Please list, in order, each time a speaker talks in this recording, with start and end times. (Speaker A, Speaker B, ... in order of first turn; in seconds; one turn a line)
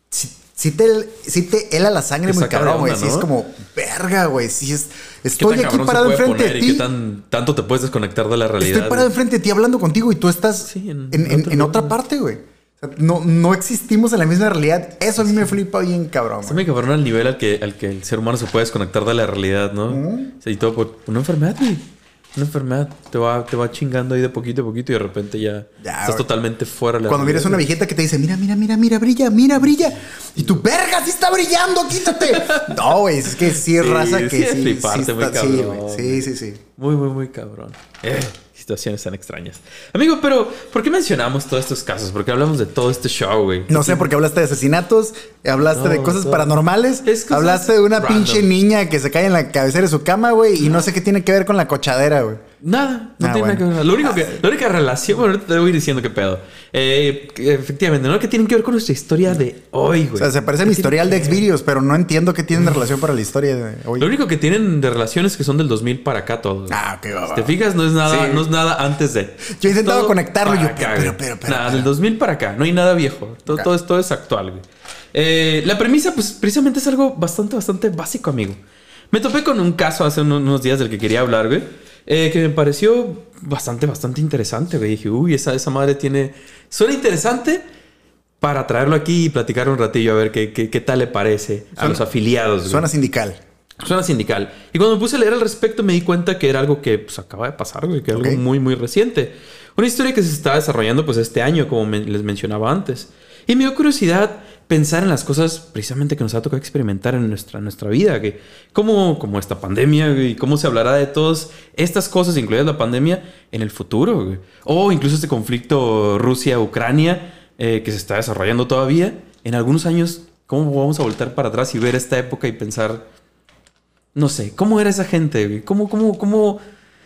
Speaker A: 0.1-6.9
Speaker B: 2.2-3.3
Speaker B: 5.4-9.1
Speaker A: 8.6-16.6
Speaker B: 10.6-12.0
Speaker B: 15.2-15.5
Speaker B: 16.4-27.6
Speaker A: 19.9-20.3
Speaker A: 25.8-26.3
Speaker A: 27.1-36.6
Speaker B: 31.9-44.1
Speaker A: 43.7-52.4
Speaker B: 45.7-48.5
Speaker B: 52.6-61.5
Speaker A: 53.2-54.4
Speaker A: 60.2-64.1
Speaker B: 64.0-66.8
Speaker A: 66.7-68.5
Speaker B: 67.3-78.6
Speaker A: 69.5-71.9
Speaker B: 79.1-87.6
Speaker B: 88.4-92.9
Speaker A: 91.8-92.1
Speaker A: 92.6-93.4
Speaker B: 93.8-123.1
Speaker A: 98.1-98.4
Speaker B: 124.2-126.6